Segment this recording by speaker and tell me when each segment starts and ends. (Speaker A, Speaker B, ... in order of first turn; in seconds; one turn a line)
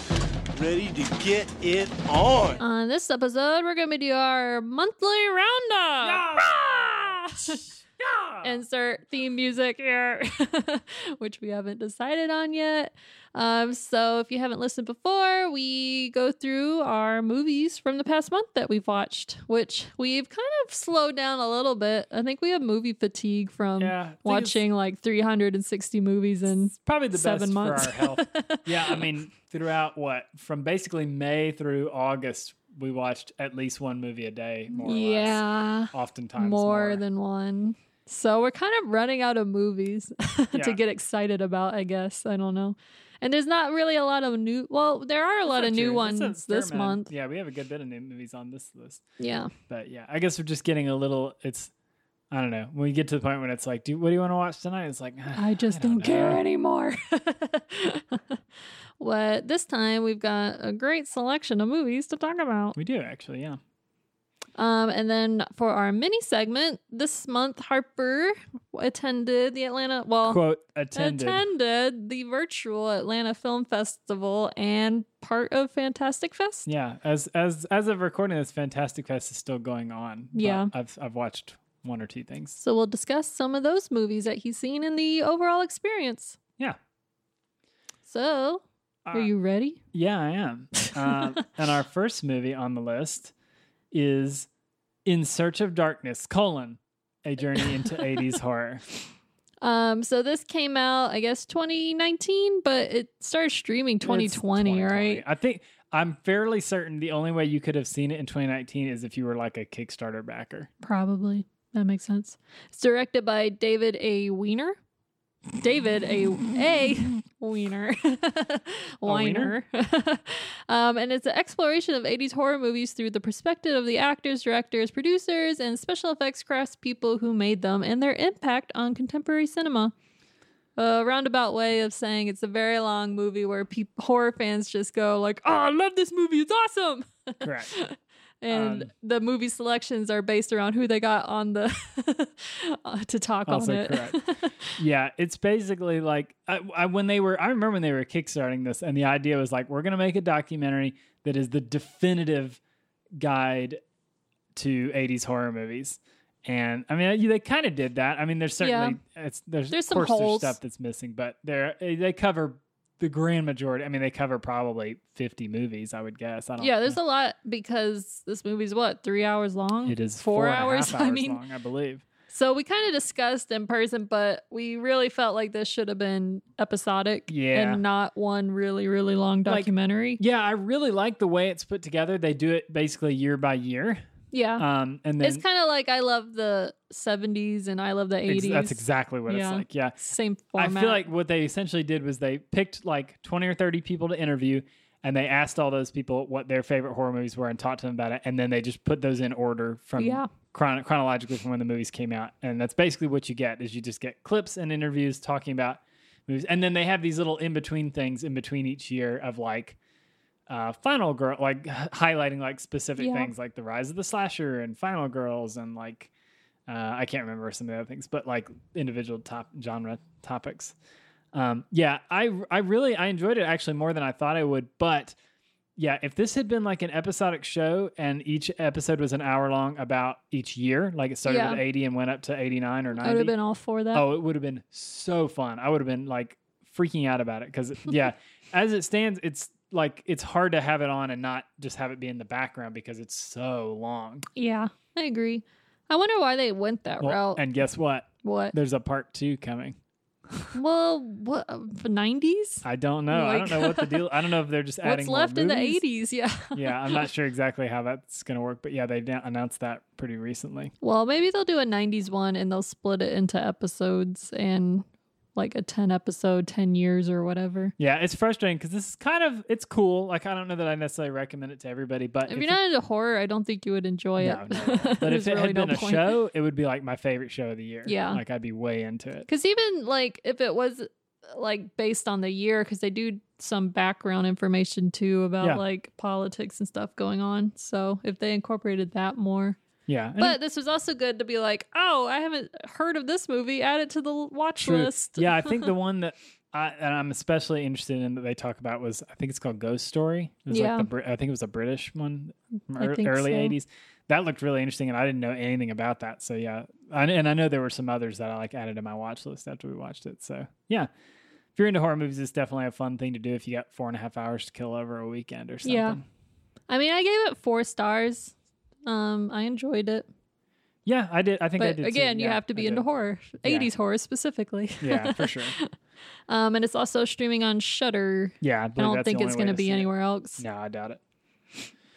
Speaker A: 0.5-2.6
Speaker B: 2.6-7.6
Speaker C: 6.0-8.6
Speaker B: 8.4-29.1
Speaker C: 23.8-24.6
Speaker C: 26.7-37.0
Speaker B: 34.7-47.1
Speaker C: 40.5-40.8
Speaker C: 45.5-49.0
Speaker B: 49.2-49.5
Speaker C: 49.7-51.7
Speaker C: 52.3-56.4
Speaker B: 55.3-58.4
Speaker B: 59.0-62.8
Speaker C: 62.7-63.6
Speaker B: 64.6-70.4
Speaker C: 70.2-71.4
Speaker B: 70.9-76.7
Speaker C: 76.7-82.6
Speaker B: 80.3-80.7
Speaker B: 82.6-86.4
Speaker B: 88.1-89.8
Speaker C: 89.0-89.3
Speaker C: 89.9-93.3
Speaker C: 93.9-94.5
Speaker C: 95.0-98.8
Speaker B: 99.6-105.2
Speaker C: 104.0-110.7
Speaker B: 110.8-114.8
Speaker B: 115.6-129.9
Speaker C: 119.0-119.5
Speaker B: 130.8-144.8
Speaker C: 137.4-137.7
Speaker C: 138.5-138.9
Speaker C: 143.4-152.6
Speaker C: 153.2-153.8
Speaker C: 154.5-166.9
Speaker B: 158.6-159.0
Speaker B: 159.7-160.6
Speaker B: 166.6-171.4
Speaker C: 169.8-172.0
Speaker B: 172.3-180.2
Speaker C: 177.3-177.8
Speaker C: 179.4-184.0
Speaker B: 184.3-184.6
Speaker C: 184.6-185.4
Speaker B: 185.2-191.0
Speaker C: 188.2-190.0
Speaker C: 190.6-209.8
Speaker B: 200.0-200.3
Speaker C: 210.5-216.1
Speaker B: 213.0-213.3
Speaker C: 216.7-220.7
Speaker C: 221.3-225.2
Speaker C: 225.8-233.3
Speaker B: 231.2-231.6
Speaker B: 233.0-234.0
Speaker C: 233.9-244.3
Speaker B: 244.3-247.4
Speaker C: 247.0-249.8
Speaker B: 248.2-248.5
Speaker B: 250.5-254.1
Speaker C: 252.6-255.8
Speaker B: 254.8-257.1
Speaker C: 256.5-260.7
Speaker B: 260.8-267.7
Speaker C: 267.8-272.6
Speaker B: 272.3-276.1
Speaker C: 274.2-279.3
Speaker B: 277.9-278.2
Speaker B: 279.3-289.6
Speaker C: 289.9-290.4
Speaker B: 290.2-295.7
Speaker C: 294.6-310.9
Speaker B: 300.5-300.9
Speaker B: 302.8-303.5
Speaker C: 311.6-316.0
Speaker B: 315.6-316.0
Speaker B: 316.7-318.3
Speaker B: 318.9-320.1
Speaker C: 320.9-322.9
Speaker B: 321.6-325.7
Speaker C: 323.4-323.7
Speaker C: 324.8-325.6
Speaker B: 326.3-330.4
Speaker C: 328.4-331.0